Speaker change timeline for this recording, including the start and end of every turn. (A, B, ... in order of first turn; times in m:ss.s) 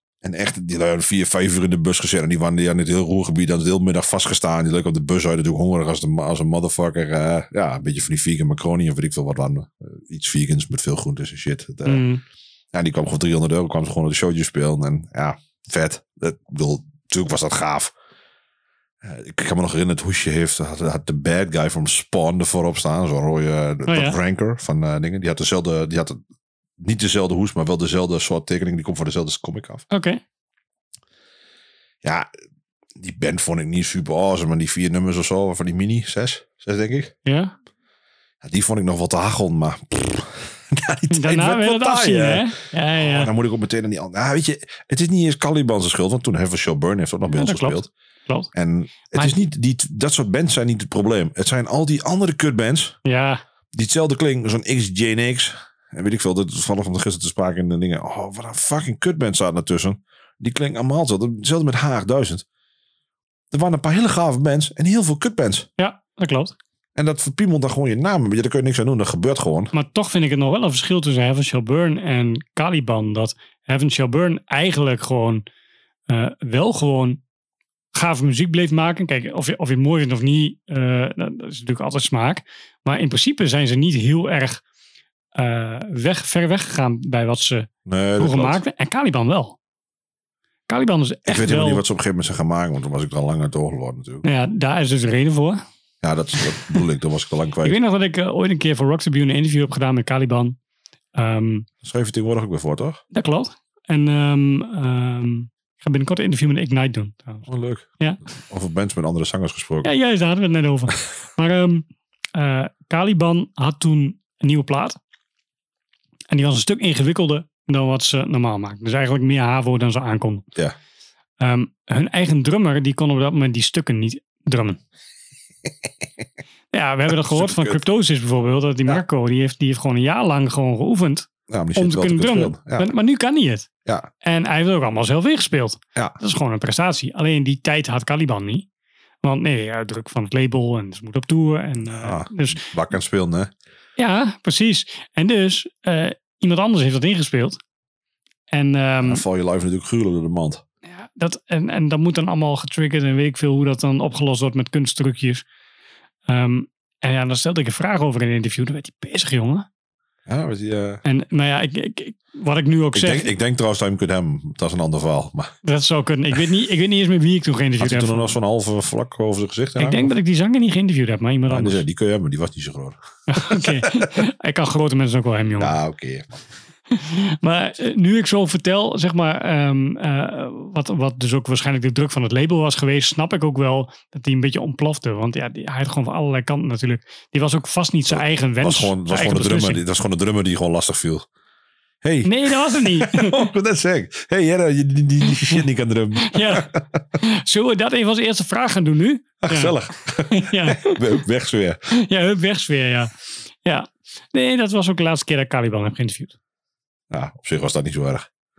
0:00.2-0:12.0 A
0:11.8-0:12.2 B
0:12.7-0:17.9 A
0:19.0-0:26.2 A
0:23.9-0:24.2 B
0:26.8-0:29.8 A
0:29.9-0:30.2 B
0:32.0-0:32.3 A
0:33.0-0:37.1 A
0:37.3-0:37.5 B
0:38.4-0:47.9 A
0:41.1-0:43.3 B
0:47.3-0:48.5 B
0:48.5-0:53.0 A
0:53.0-0:53.4 B
0:53.7-1:02.4 A
1:03.5-1:05.7 A
1:05.8-1:06.6 B
1:07.0-1:09.7 A
1:09.7-1:15.4 B
1:16.1-1:17.2 B
1:17.9-1:24.6 B
1:25.4-1:29.6 B
1:27.9-1:28.6 A
1:30.7-1:31.8 B
1:31.3-1:34.2 A
1:34.2-1:35.6 B
1:36.0-1:37.8 A
1:37.6-1:40.6 B
1:41.2-1:41.7 B
1:41.8-1:43.0 A
1:43.1-1:47.5 B
1:47.5-1:47.9 A
1:48.4-1:49.9 A
1:49.8-1:55.0 B
1:56.3-2:00.4 B
2:01.4-2:04.8 B
2:06.7-2:13.7 B
2:07.1-2:07.8 A
2:11.5-2:12.9 A
2:14.2-2:18.7 B
2:19.2-2:22.6 B
2:21.9-2:23.5 A
2:24.0-2:27.6 B
2:28.5-2:29.2 B
2:29.0-2:30.6 A
2:30.8-2:35.4 B
2:36.3-2:39.7 B
2:40.3-2:41.0 A
2:41.0-2:43.3 B
2:42.9-2:45.6 A
2:45.6-2:48.4 B
2:47.8-2:50.1 A
2:49.8-2:51.8 B
2:51.5-2:54.2 A
2:53.3-2:55.8 B
2:55.6-2:56.5 A
2:56.9-3:09.8 B
3:08.1-3:11.3 A
3:12.0-3:17.0 A
3:12.2-3:13.4 B
3:16.2-3:16.7 B
3:17.2-3:19.7 B
3:19.4-3:21.8 A
3:20.3-3:21.0 B
3:21.9-3:23.1 B
3:23.6-3:26.4 B
3:27.1-3:28.3 A